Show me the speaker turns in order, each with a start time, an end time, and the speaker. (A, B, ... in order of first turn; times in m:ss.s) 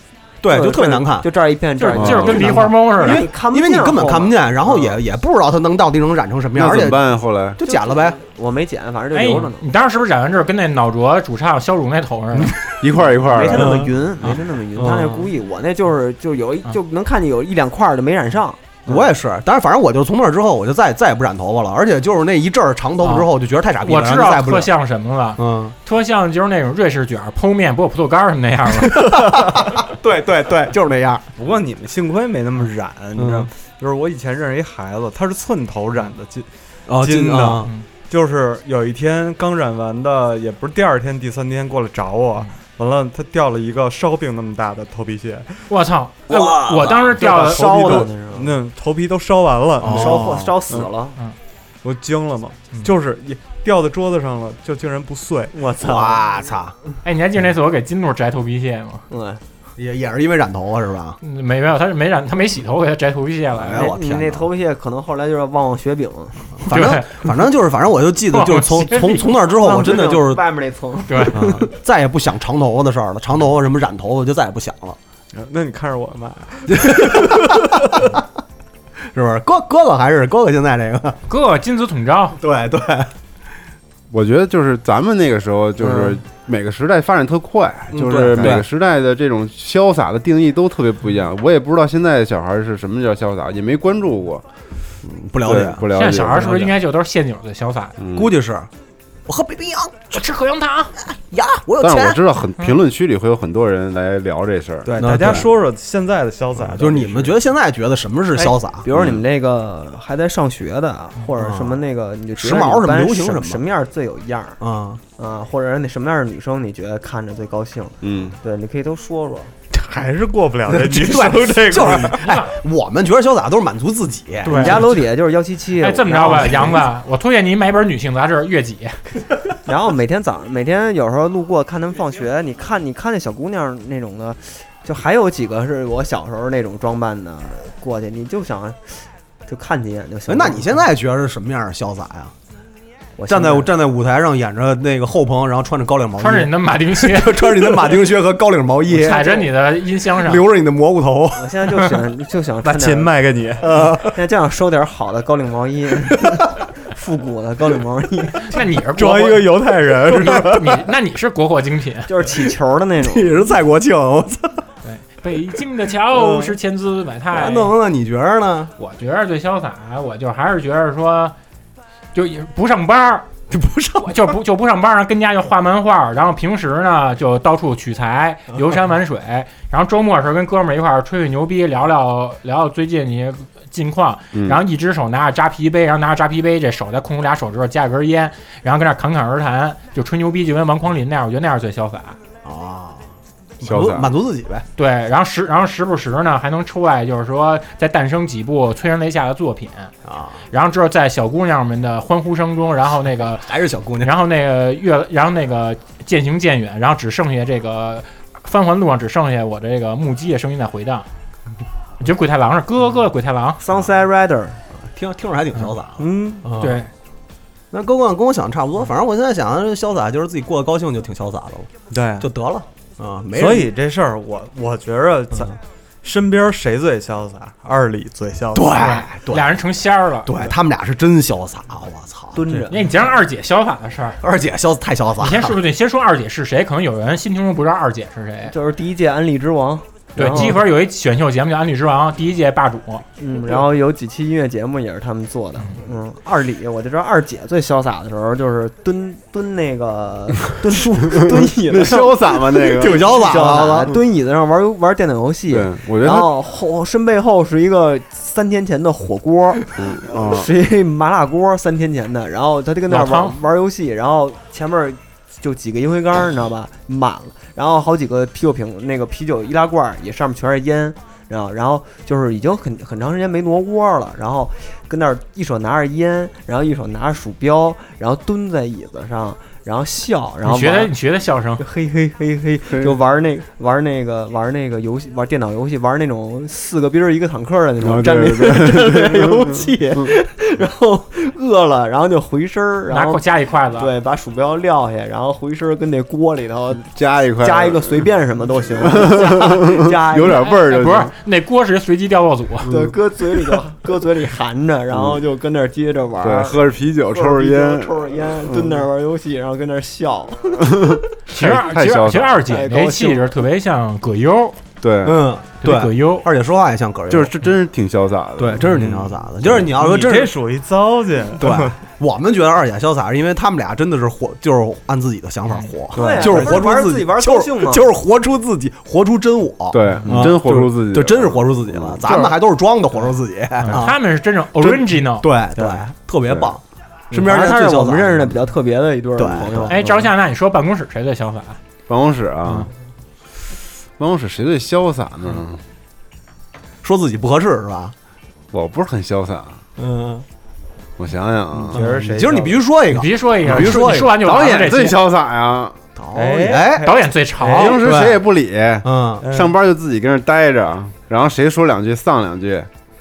0:00.4-0:01.3 A
0:00.5-0:04.4 B
0:01.8-0:03.2 C
0:02.0-0:02.4 D
0:02.1-0:07.0 A
0:06.5-0:07.6 D
0:07.6-0:08.2 A
0:07.6-0:09.6 B
0:09.1-0:12.6 C
0:12.8-0:13.8 D
0:13.2-0:19.1 B
0:13.5-0:15.3 A
0:18.9-0:24.7 A
0:23.0-0:23.3 C
0:23.8-0:29.2 C
0:25.4-0:25.7 A
0:28.9-0:31.2 A
0:29.4-0:29.6 E
0:31.4-0:45.5 E
0:33.2-0:33.5 A
0:36.9-0:37.7 A
0:45.7-0:48.0 C
0:46.3-0:48.1 A
0:47.2-0:48.5 B
0:48.3-0:50.8 E
0:49.8-0:50.5 A
0:49.9-0:51.2 B
0:51.8-0:55.8 E
0:55.6-0:56.1 B
0:55.8-0:56.7 A
0:57.0-0:59.0 C
0:59.1-0:59.4 B
0:59.8-1:01.2 A
1:01.2-1:03.9 C
1:03.5-1:04.5 A
1:03.7-1:06.5 B
1:06.6-1:10.4 A
1:06.7-1:07.1 C
1:08.3-1:09.3 C
1:09.6-1:11.6 B
1:11.1-1:11.4 C
1:11.3-1:15.0 A
1:15.3-1:18.0 E
1:16.7-1:18.0 A
1:19.1-1:21.2 A
1:21.3-1:22.4 C
1:22.4-1:23.1 A
1:24.1-1:34.4 D
1:27.9-1:28.7 A
1:35.0-1:35.9 A
1:35.4-1:36.7 D
1:35.9-1:37.9 C
1:38.0-1:38.3 D
1:38.1-1:38.7 A
1:39.3-1:40.2 A
1:40.1-1:40.9 C
1:41.0-1:42.2 A
1:41.8-1:45.5 D
1:44.8-1:47.4 E
1:45.0-1:45.5 A
1:46.6-1:48.8 A
1:48.8-1:54.6 B
1:48.9-1:49.2 D
1:51.4-1:51.8 A
1:52.4-1:53.6 A
1:54.6-1:55.0 A
1:55.2-1:59.5 B
1:58.0-1:58.4 D
1:59.7-2:02.3 E
2:00.7-2:04.8 A
2:04.4-2:06.8 B
2:04.5-2:04.9 C
2:04.5-2:04.8 E
2:05.8-2:09.0 C
2:09.6-2:20.8 B
2:20.3-2:22.3 A
2:23.2-2:23.7 B
2:23.3-2:29.4 A
2:26.2-2:27.9 C
2:28.9-2:30.4 C
2:29.1-2:29.4 B
2:30.2-2:31.4 A
2:31.4-2:33.1 B
2:32.6-2:33.7 E
2:33.6-2:34.0 A
2:34.1-2:38.5 B
2:38.5-2:42.1 C
2:39.0-2:40.8 E
2:42.1-2:43.4 B
2:43.0-2:44.6 A
2:44.8-2:47.7 C
2:46.1-2:46.5 A
2:47.3-2:48.7 A
2:48.8-2:51.3 C
2:52.1-2:53.2 C
2:53.5-2:54.3 A
2:54.0-3:12.2 C
3:04.3-3:04.6 D
3:12.4-3:13.0 A
3:13.6-3:14.6 A
3:13.6-3:14.1 D
3:14.8-3:19.9 C
3:20.0-3:20.4 A
3:20.5-3:31.1 C
3:23.4-3:24.1 A
3:32.0-3:33.6 C
3:33.6-3:34.6 B
3:34.8-3:36.8 A
3:36.0-3:36.4 E
3:36.6-3:36.9 C
3:37.7-3:43.7 A
3:41.9-3:42.3 E
3:43.3-3:48.9 E
3:48.5-3:49.5 A
3:48.7-3:50.3 C
3:50.2-3:52.7 A
3:52.4-3:52.8 B
3:52.7-3:54.2 C
3:54.2-3:55.6 A
3:55.2-3:58.5 C
3:58.5-4:00.6 B
4:00.2-4:03.0 C
4:03.2-4:40.9 B
4:11.1-4:13.1 D
4:12.6-4:14.0 A
4:15.5-4:16.3 D
4:19.7-4:20.5 D
4:22.9-4:23.4 C
4:40.4-4:41.6 C
4:41.6-4:53.2 B
4:42.7-4:42.9 D
4:47.8-4:50.0 D
4:52.9-4:53.9 C
4:53.7-5:00.4 B
4:56.9-4:58.1 D
4:58.8-5:01.1 D
5:00.3-5:02.7 C
5:02.7-5:11.0 B
5:04.9-5:05.2 D
5:06.2-5:08.8 D
5:10.6-5:12.4 D
5:11.3-5:14.6 C
5:12.5-5:13.3 B
5:14.8-5:15.2 D
5:15.0-5:17.3 A
5:15.6-5:16.3 C
5:17.1-5:18.9 D
5:18.4-5:20.3 A
5:19.6-5:21.8 E
5:21.4-5:34.0 A
5:25.9-5:27.9 B
5:26.0-5:26.6 E
5:29.7-5:32.0 D
5:32.0-5:32.3 B
5:33.6-5:35.3 C
5:34.6-5:38.4 A
5:37.1-5:40.0 B
5:39.2-5:39.8 A
5:39.7-5:41.6 C
5:41.9-5:42.7 D
5:44.0-5:45.6 D
5:46.8-5:47.9 A
5:48.5-5:49.6 D
5:49.8-5:50.2 A
5:51.0-5:51.8 D
5:51.7-5:54.2 A
5:51.7-5:52.6 E
5:52.9-5:55.0 C
5:53.5-5:55.8 D
5:56.0-5:56.9 A
5:56.1-5:57.0 E
5:56.8-5:57.8 C
5:57.4-5:58.3 A
5:57.5-6:02.7 D
5:58.8-5:59.2 A
5:59.2-5:59.5 E